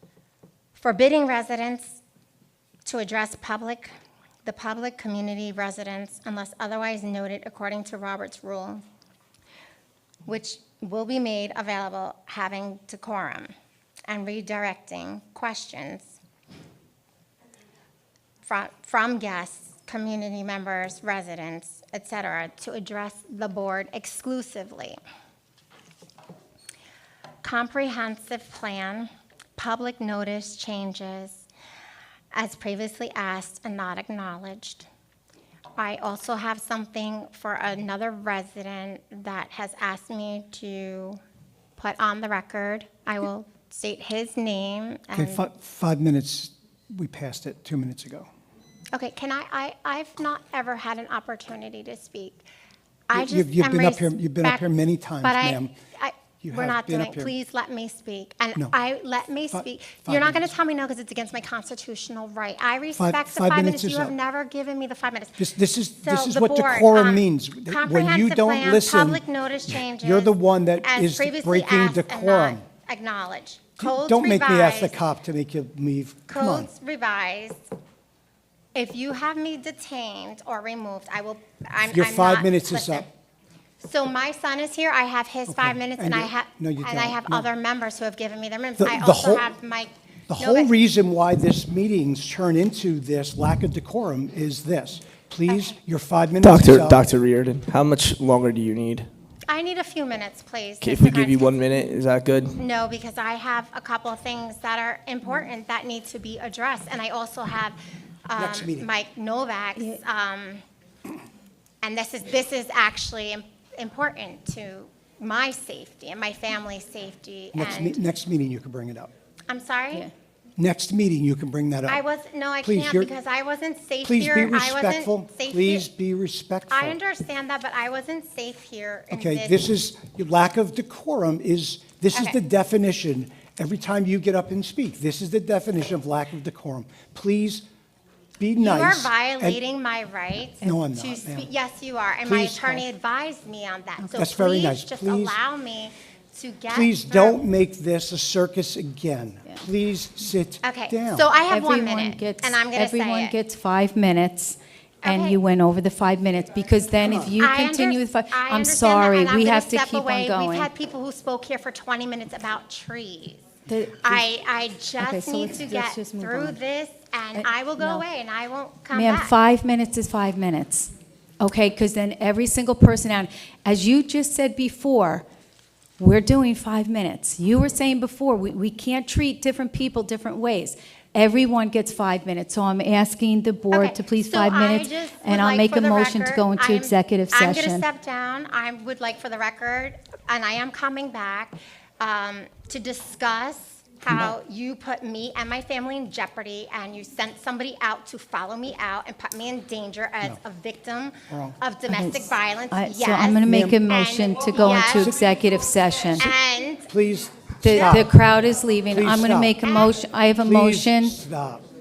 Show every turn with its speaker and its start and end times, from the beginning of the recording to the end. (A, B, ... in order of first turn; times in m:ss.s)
0:00.8-0:02.0 A
0:02.8-0:03.9 A
0:04.4-0:08.8 A
0:10.3-0:13.5 A
0:14.1-0:16.2 A
0:18.4-0:25.0 A
0:27.4-0:31.5 A
0:32.3-0:34.9 A
0:35.8-0:41.2 A
0:41.8-0:45.4 A
0:45.2-0:48.3 B
0:48.9-0:52.4 A
0:53.1-0:54.7 A
0:53.1-0:55.7 B
0:55.2-1:05.4 A
0:56.4-0:57.3 B
0:59.5-1:00.4 B
1:03.0-1:04.1 B
1:05.4-1:12.6 B
1:06.0-1:15.0 A
1:13.8-1:16.7 B
1:16.3-1:17.6 A
1:18.8-1:23.1 A
1:21.9-1:23.1 B
1:23.8-1:30.7 A
1:25.5-1:27.5 B
1:28.8-1:29.5 B
1:30.3-1:37.1 B
1:35.5-1:35.8 A
1:36.4-1:39.1 C
1:39.5-1:41.6 A
1:40.8-1:42.6 C
1:42.6-1:50.6 A
1:48.4-1:48.9 B
1:51.8-1:58.0 A
1:57.5-1:59.1 B
1:59.5-2:00.1 A
2:00.6-2:02.0 B
2:01.9-2:05.9 A
2:02.6-2:03.1 B
2:04.0-2:07.0 B
2:06.7-2:09.7 A
2:09.1-2:17.6 B
2:12.1-2:12.4 A
2:18.4-2:19.6 B
2:18.6-2:27.4 A
2:20.6-2:21.5 B
2:22.2-2:22.8 B
2:24.2-2:25.4 B
2:26.7-2:31.3 B
2:30.6-2:33.4 A
2:31.5-2:40.7 D
2:35.0-2:35.4 A
2:37.3-2:43.4 A
2:43.7-2:44.2 D
2:44.0-2:49.4 A
2:45.0-2:46.6 D
2:47.4-2:48.0 D
2:48.9-2:55.2 D
2:56.0-3:07.8 D
3:03.7-3:25.1 A
3:14.1-3:14.3 B
3:21.3-3:21.6 B
3:21.9-3:26.3 D
3:23.4-3:23.8 B
3:24.8-3:25.1 B
3:26.2-3:26.9 A
3:26.9-3:28.1 B
3:27.6-3:31.2 D
3:27.7-3:28.0 A
3:28.9-3:29.6 B
3:29.6-3:30.0 A
3:30.4-3:31.6 B